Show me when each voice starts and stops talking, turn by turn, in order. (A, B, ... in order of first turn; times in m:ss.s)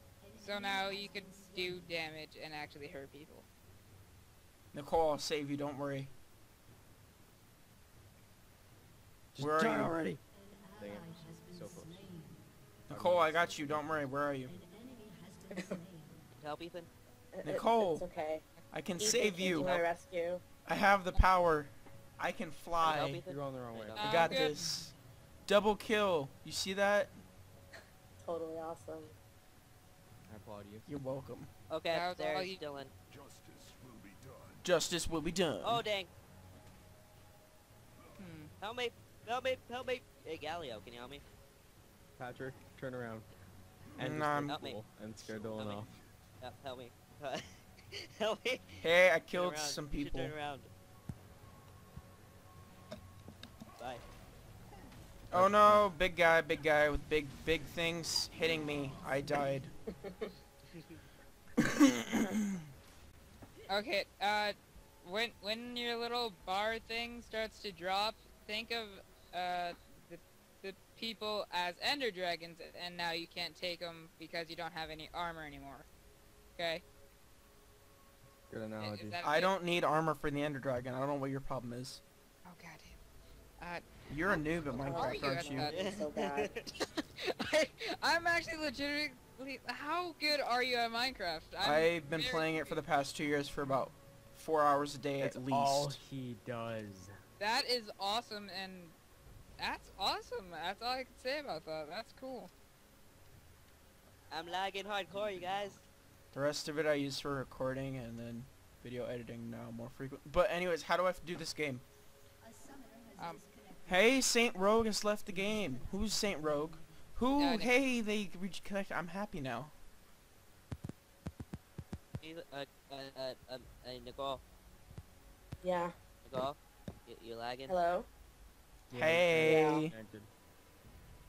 0:00.4-0:03.5 A
0:04.7-0:06.1 B
0:09.4-0:10.2 C
0:09.4-0:10.0 B
0:10.8-0:12.3 C
0:12.9-0:14.6 B
0:12.9-0:14.1 C
0:15.5-0:15.8 D
0:16.4-0:16.9 E
0:17.3-0:18.4 D
0:17.4-0:18.0 B
0:18.7-0:19.8 B
0:19.0-0:20.4 D
0:20.6-0:23.2 B
0:22.8-0:24.2 E
0:23.3-0:24.3 C
0:24.0-0:24.6 A
0:24.0-0:25.0 B
0:25.5-0:27.1 B
0:28.2-0:29.1 D
0:30.3-0:30.9 C
0:30.9-0:31.5 B
0:31.7-0:32.9 E
0:31.9-0:32.6 A
0:34.6-0:35.8 B
0:35.6-0:36.1 E
0:38.2-0:38.5 A
0:38.6-0:41.2 E
0:42.2-0:43.3 C
0:44.0-0:44.6 B
0:44.0-0:45.9 C
0:44.4-0:50.7 E
0:48.8-0:50.3 B
0:53.8-0:54.0 E
0:55.3-0:59.7 B
0:55.3-0:55.9 C
1:00.0-1:00.3 D
1:01.6-1:02.3 B
1:03.7-1:15.9 A
1:16.6-1:16.8 A
1:18.5-1:19.2 C
1:18.8-1:19.5 A
1:19.2-1:22.0 B
1:22.5-1:23.0 A
1:23.6-1:25.9 A
1:24.1-1:25.7 B
1:24.8-1:26.5 D
1:25.7-1:26.7 E
1:26.8-1:32.8 A
1:31.6-1:36.0 B
1:35.2-1:37.2 C
1:37.4-1:39.0 A
1:39.6-1:42.5 A
1:44.3-1:45.8 E
1:46.3-1:51.8 B
1:53.2-1:53.4 A
1:53.9-1:59.7 B
1:57.4-1:57.7 A
2:02.2-2:04.4 E
2:05.6-2:05.9 D
2:06.2-2:07.8 E
2:07.7-2:08.1 D
2:08.9-2:10.3 C
2:08.9-2:09.9 B
2:09.4-2:09.8 D